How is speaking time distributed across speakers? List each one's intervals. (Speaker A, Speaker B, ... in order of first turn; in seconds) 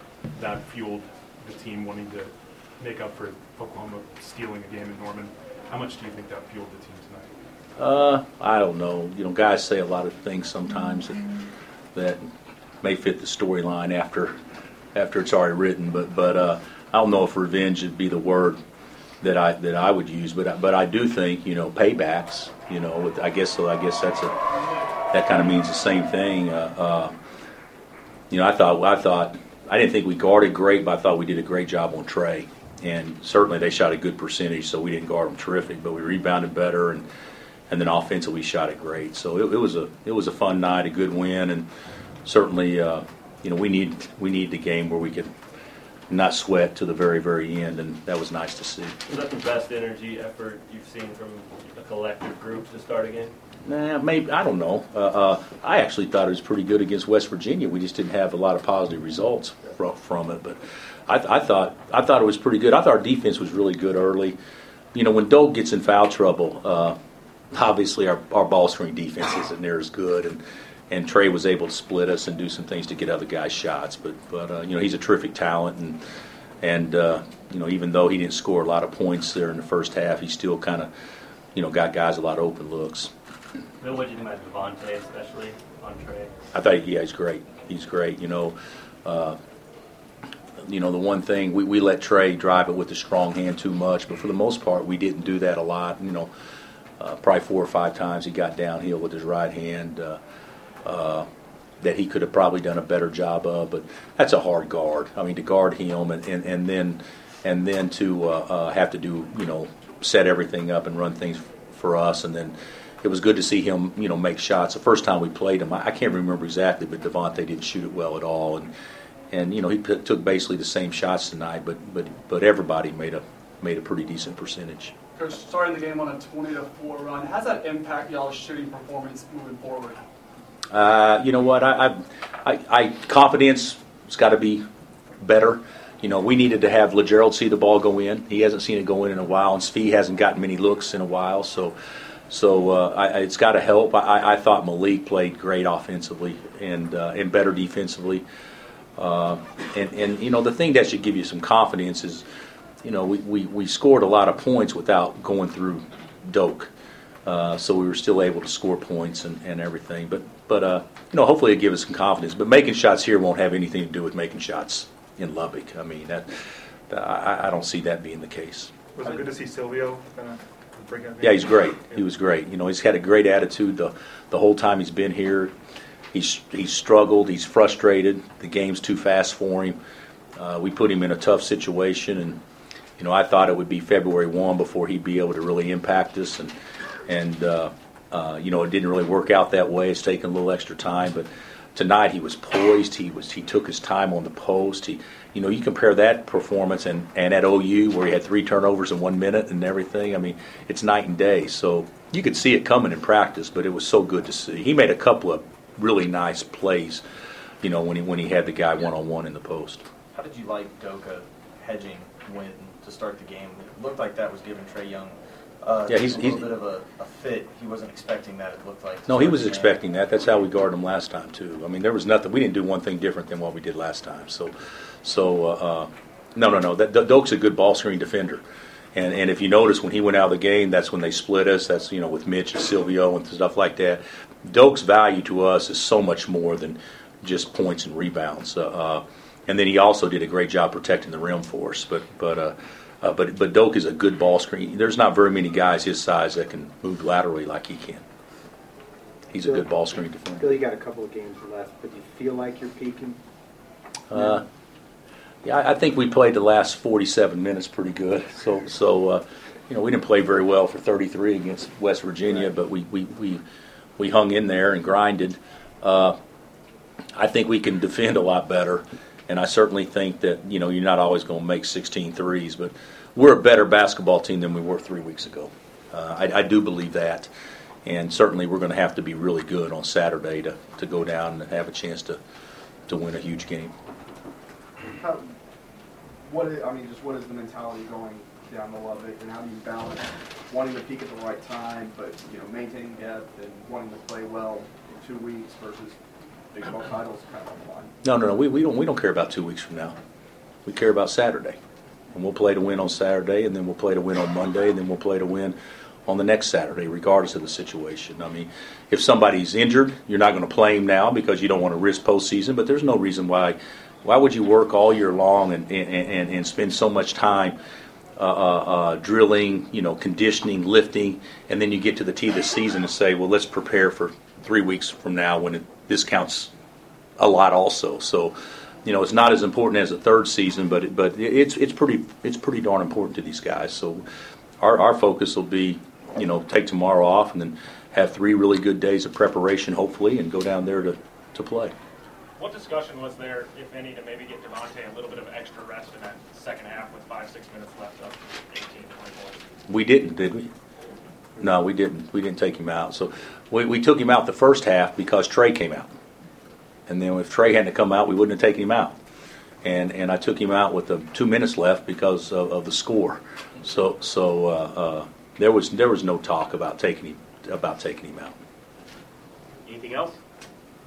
Speaker A: 0.3-7.3, 342.4-343.9, 344.6-346.4, 347.3-349.1
Speaker B: 7.8-11.2, 11.9-12.2, 12.8-14.3, 14.9-18.6, 19.2-24.3, 25.1-27.1, 28.3-37.0, 37.7-41.7, 42.2-45.3, 46.1-48.9, 53.6-60.6, 61.1-64.3, 64.9-67.0, 67.5-76.0, 76.6-80.9, 81.5-83.1, 86.5-89.4, 90.6-96.3, 97.0-100.2, 100.8-101.3, 101.8-118.7, 119.3-124.9, 130.7-134.6, 135.2-141.7, 142.3-148.2, 149.0-152.2, 152.8-156.7, 157.2-166.3, 166.9-168.7, 171.2-175.5, 176.1-179.8, 180.3-182.4, 183.0-186.5, 187.1-207.0, 207.6-209.8, 215.9-216.4, 219.1-228.4, 228.9-248.0, 249.3-250.5, 254.1-254.4, 255.4-263.4, 264.0-266.1, 267.2-277.3, 277.8-282.2, 282.9-283.7, 298.0-299.9, 300.6-301.6, 302.1-305.6, 306.1-317.6, 318.2-326.5, 327.2-334.0, 334.6-341.7, 349.7-350.5, 351.4-355.9, 356.9-358.9, 359.6-368.3
Speaker C: 49.0-53.3, 83.8-86.3, 369.6-370.2
Speaker D: 125.2-130.0
Speaker E: 168.9-172.0
Speaker F: 210.1-219.8
Speaker G: 250.4-253.2
Speaker H: 284.9-285.3, 286.2-295.9, 296.5-297.9
Speaker I: 342.4-343.0, 343.6-349.4